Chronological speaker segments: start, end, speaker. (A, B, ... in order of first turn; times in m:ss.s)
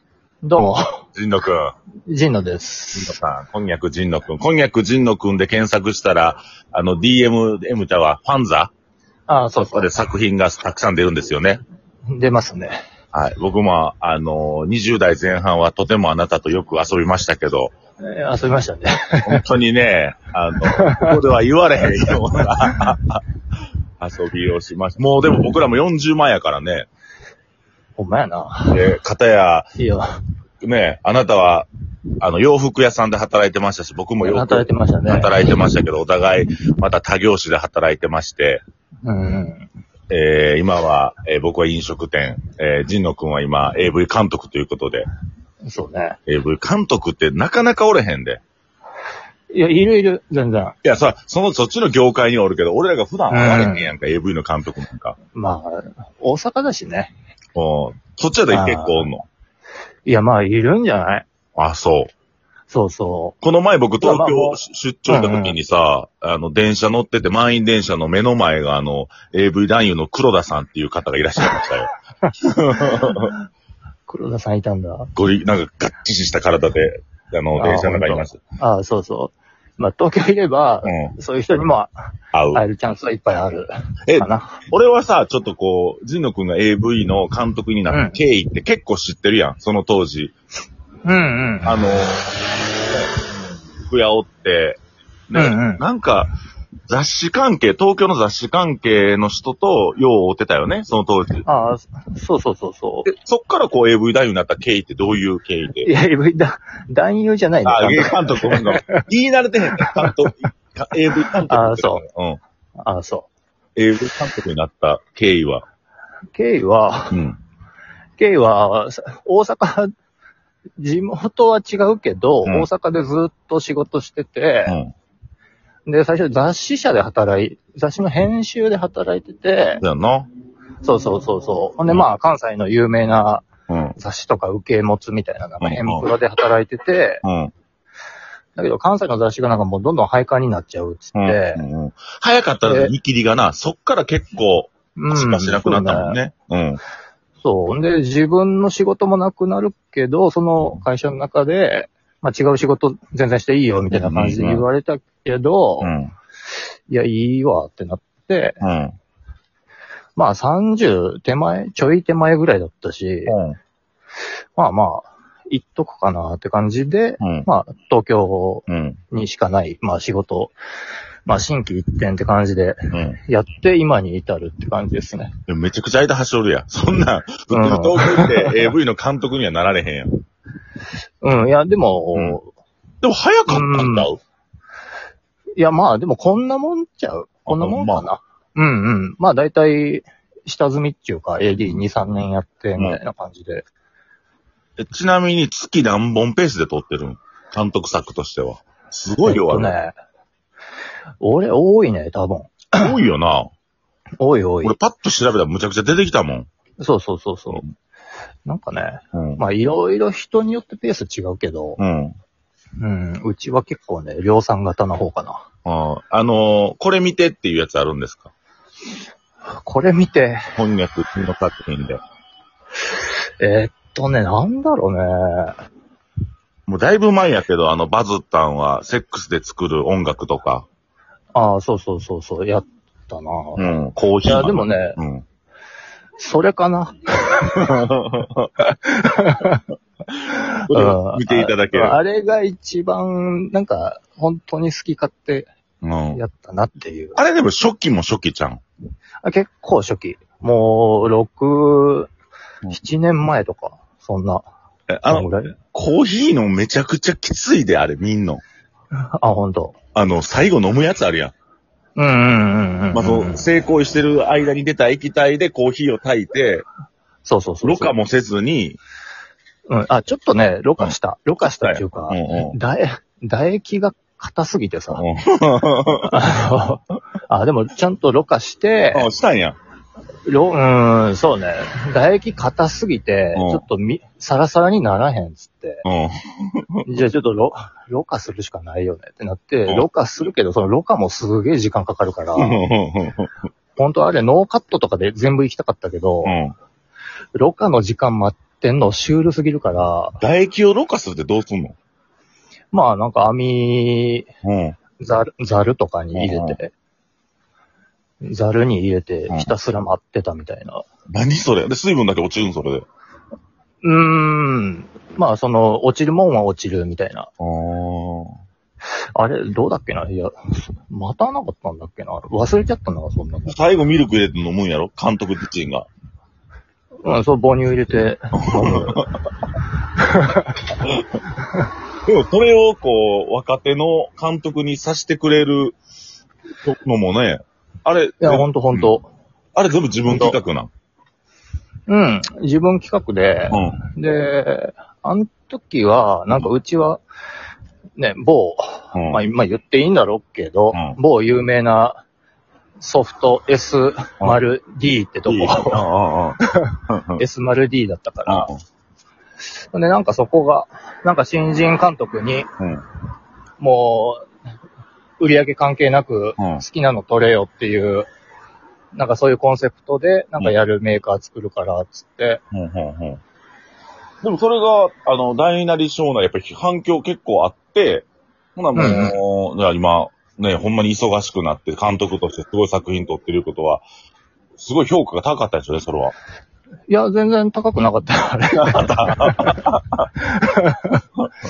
0:00.4-0:01.0 A
0:01.2-0:01.7 B
0:02.1-0:03.2 A
0:03.0-0:08.7 B
0:09.3-0:09.9 A
0:09.6-0:11.6 B
0:12.1-0:12.8 A
0:13.1-0:17.7 B
0:18.0-0:19.4 A
0:19.2-0:23.2 B
0:20.6-0:21.2 A
0:22.1-0:22.9 A
0:24.0-0:26.9 B
0:28.0-0:28.8 A
0:28.7-0:29.7 B
0:29.8-0:30.2 A
0:30.6-0:31.7 B
0:32.2-0:38.6 B
0:34.2-0:35.6 A
0:39.0-0:39.7 A
0:40.1-0:45.1 B
0:45.7-0:46.2 A
0:46.3-0:48.4 B
0:49.5-0:50.8 A
0:50.8-0:55.2 B
0:53.3-0:53.9 A
0:55.4-0:57.1 A
0:57.6-0:59.3 B
0:58.5-0:59.1 A
1:00.1-1:01.3 A
1:01.6-1:02.1 B
1:02.7-1:03.4 A
1:03.4-1:13.3 B
1:04.0-1:05.6 A
1:12.2-1:13.4 A
1:14.1-1:15.1 A
1:15.2-1:18.4 B
1:17.6-1:21.9 A
1:20.8-1:21.1 B
1:22.3-1:22.6 B
1:22.5-1:24.6 A
1:24.1-1:30.4 B
1:27.9-1:28.2 A
1:31.0-1:31.8 A
1:31.6-1:32.3 B
1:33.8-1:36.3 B
1:35.4-1:35.8 A
1:36.9-1:41.4 B
1:41.5-1:43.1 A
1:43.1-1:45.9 B
1:45.8-1:49.0 A
1:47.6-1:52.4 B
1:49.8-1:50.3 A
1:51.5-1:52.0 A
1:52.8-1:53.3 A
1:53.8-1:55.6 B
1:56.4-1:57.2 A
1:57.1-1:57.4 B
1:58.2-1:59.9 A
2:00.8-2:04.8 A
2:04.7-2:04.9 B
2:05.9-2:09.8 A
2:09.8-2:10.3 B
2:10.8-2:13.4 A
2:13.7-2:14.0 B
2:14.0-2:17.2 A
2:15.6-2:16.1 B
2:17.2-2:17.5 B
2:18.6-2:21.6 A
2:21.2-2:26.8 B
2:22.6-2:22.9 A
2:25.0-2:26.2 A
2:27.4-2:35.9 A
2:33.9-2:34.7 B
2:35.8-2:36.1 B
2:36.9-2:38.6 A
2:38.6-2:39.0 B
2:40.2-2:43.4 A
2:43.3-2:43.6 B
2:44.6-2:50.6 A
2:47.2-2:47.5 B
2:48.7-2:49.0 B
2:51.3-2:55.3 A
2:52.9-2:53.2 B
2:55.5-3:00.1 B
2:57.5-2:58.7 A
3:01.2-3:02.5 A
3:02.1-3:02.4 B
3:03.0-3:04.2 B
3:03.5-3:04.1 A
3:05.6-3:13.6 A
3:07.5-3:08.1 B
3:11.6-3:11.9 B
3:14.8-3:19.7 B
3:19.2-3:19.9 A
3:21.2-3:23.0 A
3:22.7-3:23.5 B
3:24.2-3:24.8 A
3:24.6-3:26.5 B
3:26.8-3:27.6 A
3:28.5-3:31.8 A
3:29.1-3:29.4 B
3:31.8-3:32.2 B
3:32.8-3:35.4 A
3:35.6-3:38.3 B
3:39.6-3:40.4 A
3:40.5-3:42.0 B
3:43.4-3:45.6 A
3:46.7-3:50.7 B
3:51.4-3:53.7 A
3:53.6-3:55.2 B
3:54.2-3:55.0 A
3:56.2-3:57.8 A
3:57.5-3:58.5 B
3:58.6-3:59.6 A
4:00.1-4:02.0 B
4:00.3-4:05.5 A
4:05.8-4:06.2 B
4:06.1-4:07.2 A
4:07.2-4:08.6 B
4:09.2-4:12.1 A
4:12.7-4:14.4 A
4:14.9-4:18.4 B
4:15.1-4:15.6 A
4:18.9-4:19.8 A
4:19.9-4:21.3 B
4:22.0-4:23.4 A
4:22.9-4:26.6 B
4:27.2-4:27.9 A
4:27.6-4:28.8 B
4:29.7-4:35.0 A
4:31.6-4:32.6 B
4:34.9-4:36.2 B
4:35.9-4:39.1 A
4:38.9-4:39.6 B
4:40.2-4:45.8 A
4:43.4-4:43.6 B
4:45.8-4:47.0 B
4:46.9-4:52.6 A
4:52.4-4:53.3 B
4:53.8-4:56.4 A
4:56.2-4:56.6 B
4:57.4-5:00.2 A
5:00.2-5:01.8 B
5:02.7-5:04.3 A
5:04.4-5:04.8 B
5:05.0-5:06.7 A
5:06.1-5:06.6 B
5:08.2-5:10.8 A
5:11.1-5:12.8 B
5:13.8-5:17.3 A
5:17.4-5:18.4 B
5:19.2-5:23.6 A
5:23.5-5:25.9 B
5:27.0-5:29.0 A
5:28.4-5:29.2 B
5:29.9-5:30.6 A
5:30.8-5:31.2 B
5:32.0-5:35.8 B
5:36.6-5:39.0 B
5:38.2-5:39.1 A
5:39.6-5:40.7 B
5:40.1-5:40.4 A
5:41.9-5:47.0 A
5:43.5-5:43.8 B
5:48.0-5:52.0 A
5:48.9-5:49.2 B
5:50.7-5:51.0 B
5:52.8-5:55.9 A
5:55.3-5:57.2 B
5:56.5-5:58.5 A
5:58.3-5:58.6 B
5:59.7-6:02.5 A
6:03.6-6:04.2 A
6:05.2-6:08.1 A
6:06.4-6:06.6 B
6:08.9-6:12.4 A
6:12.5-6:13.2 B
6:14.2-6:23.8 B
6:18.7-6:19.2 A
6:24.6-6:26.1 B
6:26.9-6:29.6 A
6:28.5-6:30.1 B
6:30.2-6:31.0 A